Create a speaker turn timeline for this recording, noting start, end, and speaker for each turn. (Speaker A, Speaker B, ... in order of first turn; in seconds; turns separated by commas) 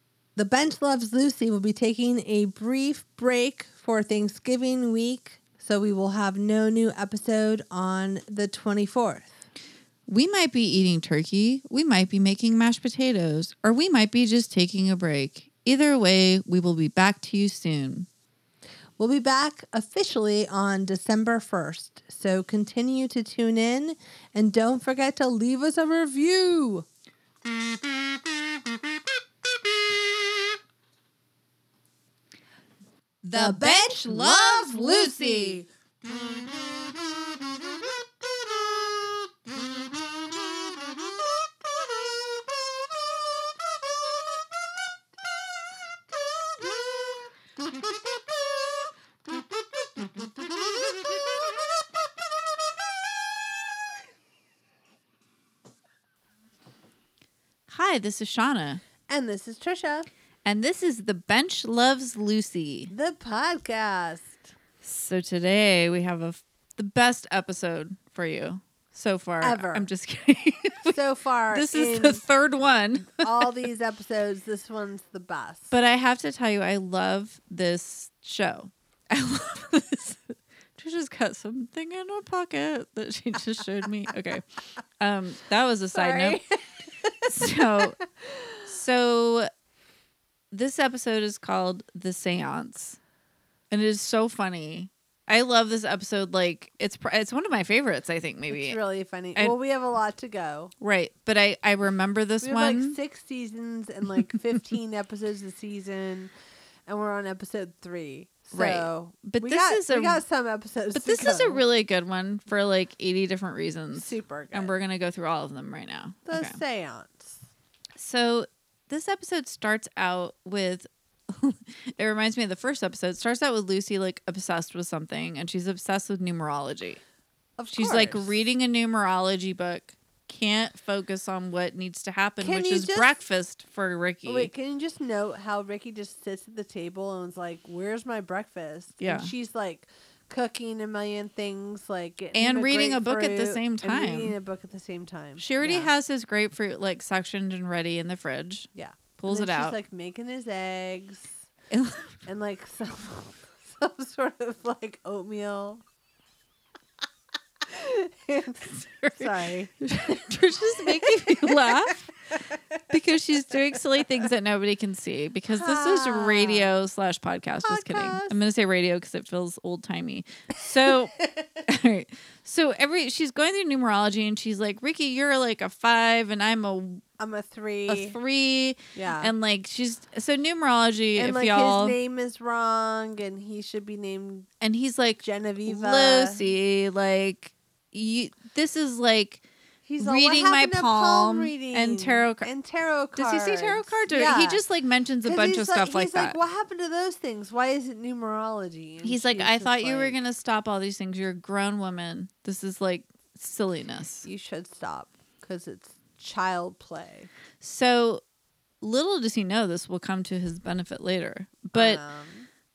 Speaker A: 0.3-9.3, Speaker B: 10.1-18.1, Speaker A: 19.0-26.9, Speaker B: 33.2-35.6, Speaker A: 33.3-35.7, Speaker B: 57.7-58.8, Speaker A: 59.1-60.1, Speaker B: 60.4-62.9, Speaker A: 62.9-64.4, Speaker B: 64.8-71.0, Speaker A: 69.4-69.9, Speaker A: 70.8-72.2, Speaker B: 71.5-73.6, Speaker A: 73.2-75.7, Speaker B: 75.7-84.4, Speaker B: 85.0-86.4, Speaker A: 85.9-88.6, Speaker B: 87.2-88.0, Speaker B: 88.7-89.5, Speaker B: 90.5-93.0, Speaker B: 93.7-98.8, Speaker A: 98.5-100.7, Speaker B: 100.8-103.0, Speaker A: 102.4-106.3, Speaker A: 106.9-111.6, Speaker B: 108.5-110.2, Speaker B: 110.9-116.6, Speaker A: 113.9-114.7, Speaker A: 116.2-117.4, Speaker B: 118.0-127.0, Speaker A: 127.6-128.4, Speaker B: 127.8-134.5, Speaker A: 132.4-133.1, Speaker A: 134.2-145.9, Speaker B: 139.0-139.3, Speaker B: 142.3-144.3, Speaker B: 145.4-149.8, Speaker A: 148.7-151.5, Speaker B: 151.7-152.2, Speaker A: 152.2-155.8, Speaker A: 157.7-159.7, Speaker B: 158.7-162.1, Speaker A: 160.8-161.9, Speaker B: 162.9-171.1, Speaker A: 165.5-166.7, Speaker A: 167.6-168.3, Speaker A: 171.2-171.4, Speaker B: 171.6-177.0, Speaker A: 177.2-178.1, Speaker B: 177.9-182.0, Speaker A: 178.9-179.3, Speaker A: 181.2-184.5, Speaker B: 184.6-189.4, Speaker A: 185.2-186.5, Speaker A: 189.8-194.6, Speaker B: 190.0-192.5, Speaker B: 193.2-196.3, Speaker A: 195.2-200.2, Speaker B: 199.0-204.2, Speaker A: 204.2-207.3, Speaker B: 207.6-208.2, Speaker B: 208.8-212.0, Speaker A: 211.7-212.5